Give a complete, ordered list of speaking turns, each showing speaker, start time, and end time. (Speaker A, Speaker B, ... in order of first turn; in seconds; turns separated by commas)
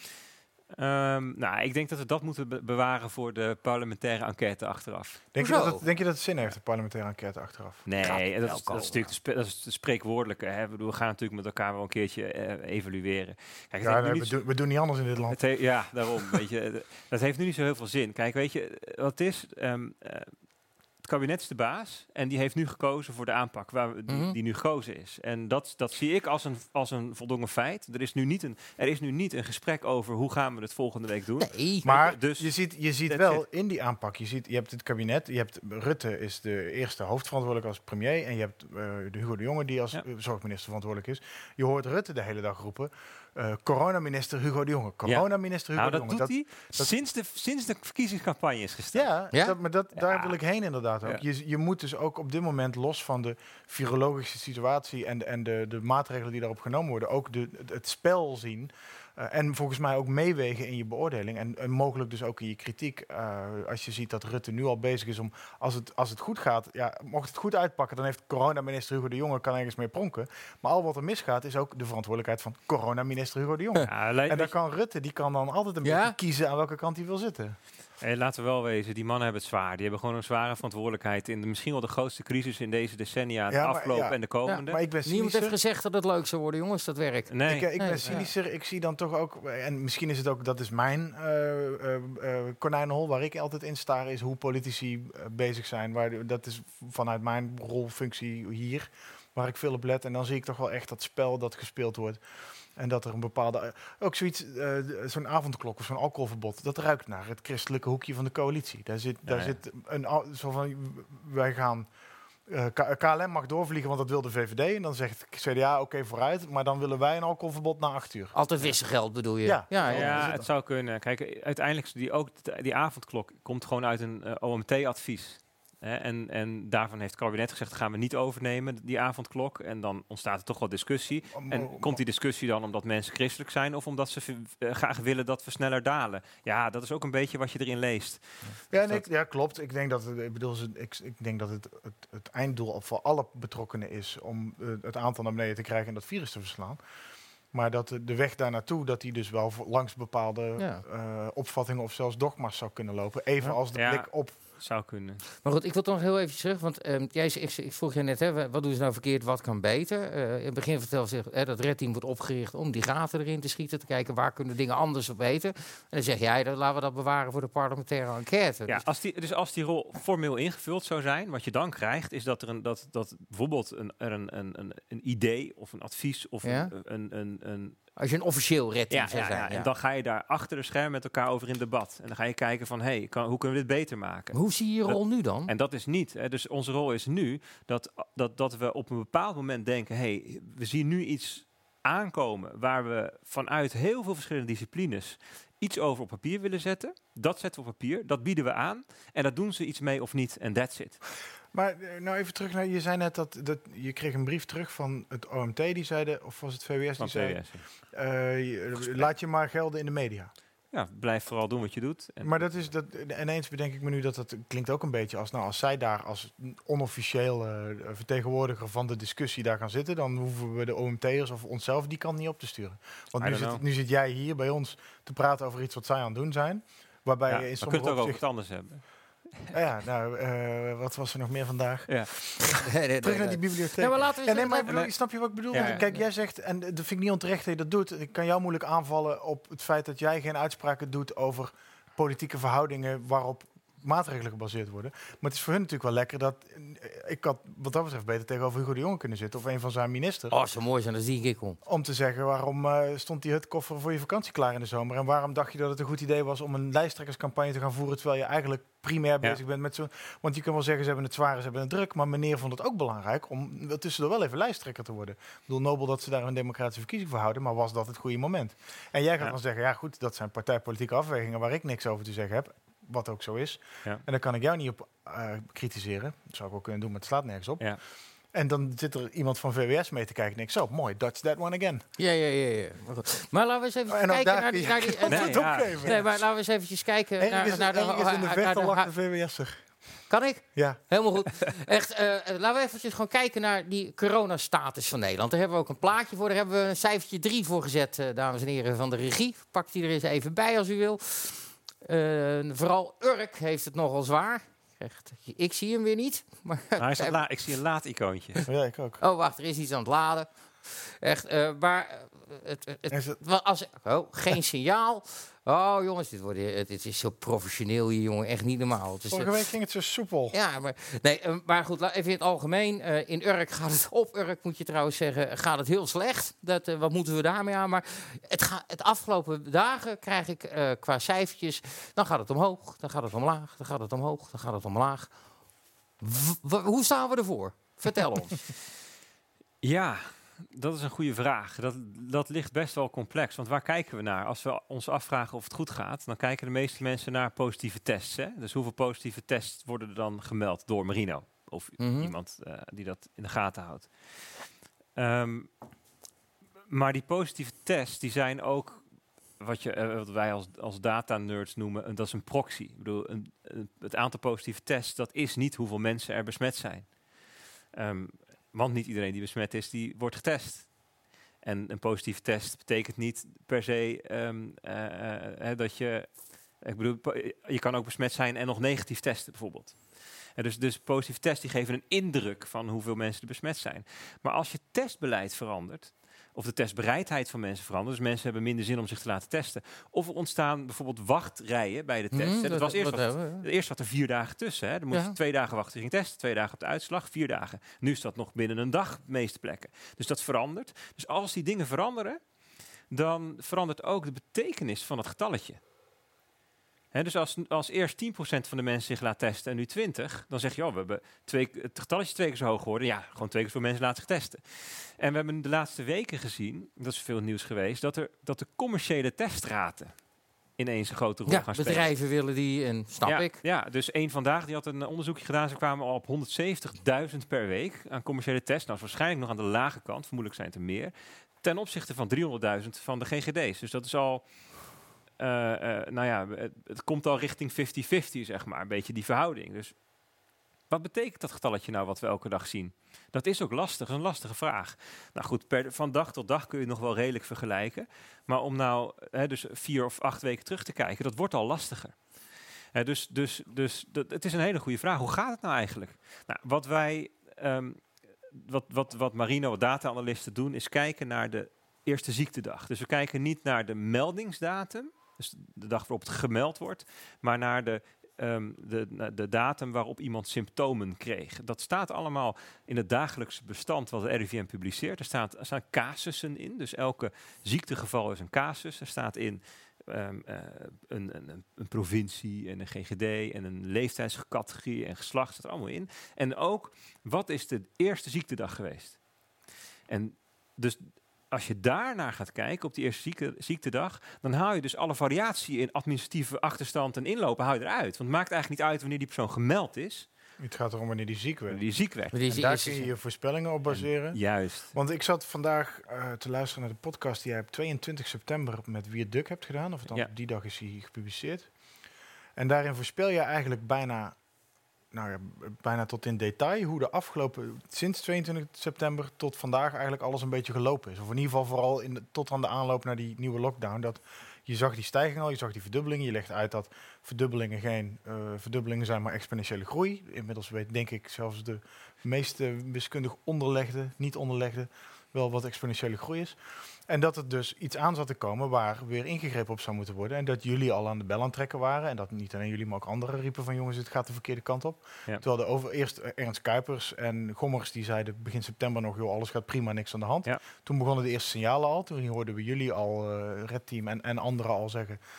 Speaker A: 0.8-5.2, Speaker B: 5.3-7.8, Speaker C: 5.4-5.8, Speaker A: 7.8-14.4, Speaker C: 8.0-9.1, Speaker B: 13.8-15.4, Speaker A: 15.3-20.3, Speaker A: 21.0-32.5, Speaker C: 24.1-24.3, Speaker C: 31.4-31.9, Speaker B: 31.8-46.9, Speaker A: 33.1-33.4, Speaker A: 45.0-49.1, Speaker B: 48.9-77.5, Speaker A: 50.0-50.3, Speaker A: 73.9-74.5, Speaker C: 75.8-76.2, Speaker A: 78.0-84.8, Speaker B: 83.5-85.5, Speaker C: 84.5-88.2, Speaker A: 87.3-88.2, Speaker B: 87.5-102.2, Speaker B: 102.8-111.9, Speaker A: 109.3-109.5, Speaker B: 112.5-118.3, Speaker C: 118.3-120.3, Speaker B: 119.4-120.5, Speaker A: 119.9-139.0, Speaker B: 131.3-132.0, Speaker B: 138.7-146.8, Speaker B: 147.5-154.3, Speaker C: 150.6-150.8, Speaker A: 153.4-155.2, Speaker C: 155.4-168.8, Speaker A: 168.7-177.8, Speaker C: 176.4-176.7, Speaker C: 178.0-179.7, Speaker A: 178.9-201.0, Speaker C: 184.3-185.5, Speaker B: 201.5-210.3, Speaker A: 207.0-207.6, Speaker A: 210.7-212.4, Speaker B: 212.2-228.2, Speaker A: 223.2-223.6, Speaker A: 227.3-228.8, Speaker B: 229.5-232.3, Speaker C: 232.4-234.8, Speaker B: 233.0-250.3, Speaker A: 235.5-235.8, Speaker C: 235.5-236.0, Speaker C: 250.3-251.6, Speaker B: 251.7-277.6, Speaker B: 278.3-281.8, Speaker C: 282.0-288.9, Speaker B: 283.9-286.1, Speaker A: 285.1-285.9, Speaker B: 287.2-289.7, Speaker C: 290.1-307.1, Speaker A: 306.8-308.4, Speaker B: 308.5-309.0, Speaker C: 309.0-319.3, Speaker B: 312.9-313.2, Speaker B: 319.1-320.3, Speaker C: 320.3-335.1, Speaker C: 336.0-338.4, Speaker A: 339.6-354.1, Speaker C: 351.8-352.1, Speaker A: 354.9-355.5, Speaker A: 356.7-358.8, Speaker A: 359.4-366.9, Speaker A: 367.7-370.7, Speaker A: 371.4-379.8, Speaker A: 380.4-402.2, Speaker C: 392.1-393.4, Speaker A: 402.9-405.6, Speaker A: 406.9-419.9, Speaker A: 420.6-421.9, Speaker C: 421.3-423.3, Speaker A: 423.0-434.3, Speaker A: 435.2-439.7, Speaker A: 440.7-451.9, Speaker A: 452.7-457.8, Speaker A: 458.3-489.0, Speaker A: 489.9-500.1, Speaker B: 500.4-501.6, Speaker A: 501.5-502.1, Speaker C: 502.1-502.9, Speaker B: 502.3-504.2, Speaker A: 503.7-504.7, Speaker B: 504.7-511.5, Speaker B: 512.4-514.2, Speaker B: 514.9-555.0